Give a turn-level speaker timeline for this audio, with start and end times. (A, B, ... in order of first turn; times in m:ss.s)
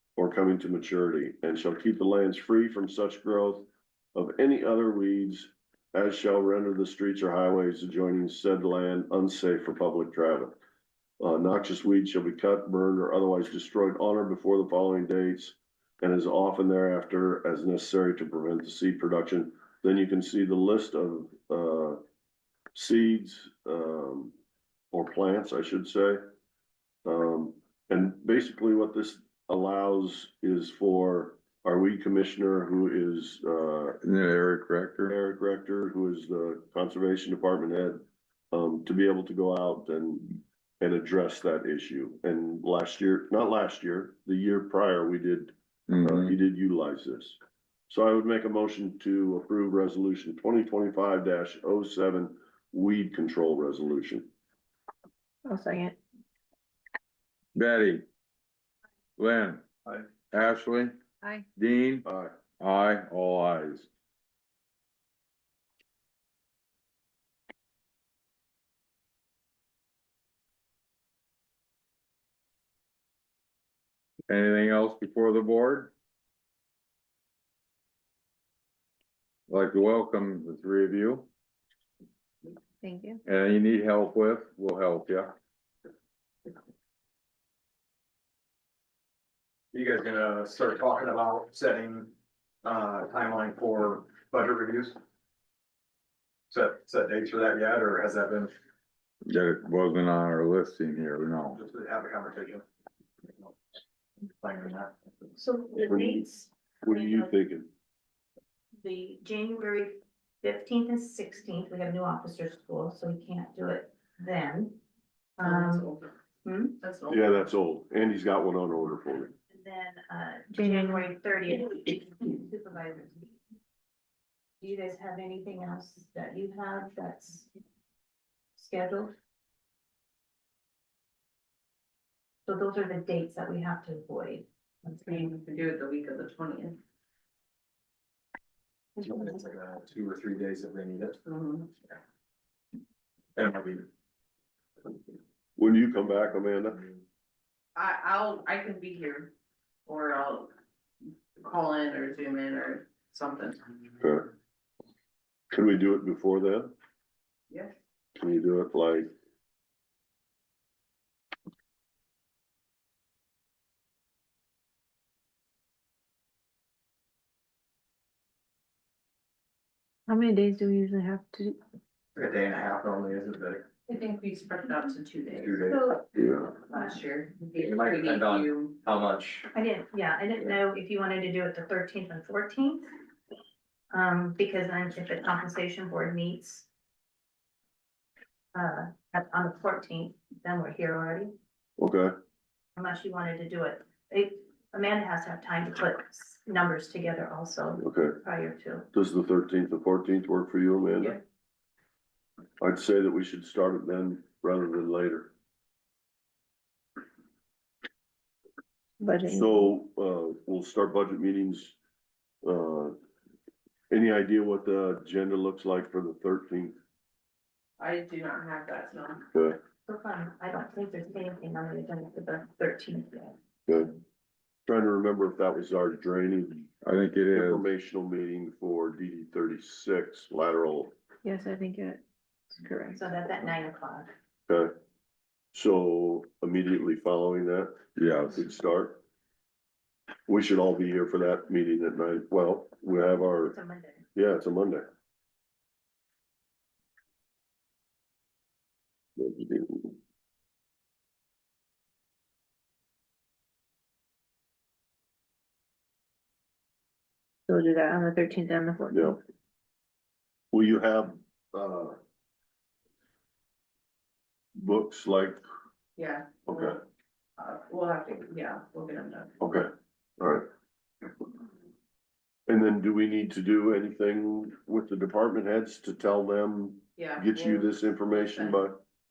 0:00.2-0:10.6 A
0:11.2-0:22.0 A
0:22.7-0:24.3 A
0:24.9-0:26.2 A
0:27.0-0:34.0 A
0:34.0-0:35.2 B
0:35.1-0:54.3 A
0:45.9-0:46.3 B
0:55.5-0:55.9 C
0:57.5-0:58.0 B
0:59.2-0:59.6 B
1:00.3-1:01.0 B
1:01.5-1:02.1 B
1:02.0-1:02.3 A
1:02.6-1:03.9 B
1:14.3-1:15.9 B
1:19.5-1:21.3 B
1:22.8-1:23.2 D
1:23.2-1:25.3 B
1:29.7-1:32.1 E
1:32.6-1:35.0 E
1:36.5-1:38.5 E
1:39.2-1:41.6 B
1:41.5-1:42.6 E
1:44.3-1:44.9 E
1:45.4-1:47.3 D
1:45.8-1:46.2 A
1:46.8-1:47.7 A
1:48.8-1:54.8 D
1:55.4-1:55.9 D
1:55.4-1:56.1 F
1:56.4-1:56.7 D
1:56.8-1:57.4 F
1:57.1-1:59.3 A
1:59.5-2:03.4 D
2:00.5-2:01.1 C
2:04.6-2:07.5 D
2:08.6-2:09.1 D
2:12.4-2:15.2 D
2:15.0-2:16.8 F
2:19.0-2:21.2 E
2:21.2-2:21.7 F
2:23.4-2:23.8 E
2:25.6-2:26.8 A
2:27.7-2:29.3 F
2:29.8-2:30.5 F
2:31.4-2:33.7 F
2:34.0-2:34.3 A
2:35.5-2:36.7 A
2:37.5-2:37.8 F
2:38.2-2:39.1 A
2:50.1-2:51.5 C
2:52.2-2:53.6 E
2:53.9-2:55.8 F
2:55.6-2:56.1 D
2:56.2-2:56.5 A
2:56.3-2:58.8 F
2:59.5-3:02.9 D
3:03.9-3:06.7 D
3:08.5-3:11.3 D
3:11.8-3:12.1 A
3:12.8-3:18.9 D
3:17.8-3:18.2 A
3:18.9-3:21.2 A
3:22.6-3:25.3 A
3:29.0-3:29.7 C
3:29.2-3:31.8 A
3:32.4-3:32.9 A
3:33.9-3:36.8 A
3:37.8-3:39.2 F
3:39.9-3:43.3 D
3:43.7-3:43.9 A
3:44.6-3:46.7 A
3:46.8-3:47.7 B
3:47.3-3:50.9 A
3:51.2-3:52.0 C
3:52.6-3:53.0 C
3:52.9-3:54.1 D
3:54.5-3:54.7 A
3:55.5-3:57.8 A
3:58.0-3:58.4 B
3:58.3-3:59.0 A
4:00.3-4:03.6 A
4:03.5-4:04.0 D
4:04.1-4:04.9 A
4:09.2-4:09.9 A
4:17.5-4:19.2 C
4:18.9-4:19.2 A
4:20.5-4:22.0 A
4:24.6-4:25.4 A
4:26.0-4:26.8 F
4:26.4-4:26.8 A
4:27.4-4:29.3 F
4:29.4-4:30.4 A
4:32.5-4:38.8 A
4:37.0-4:38.6 F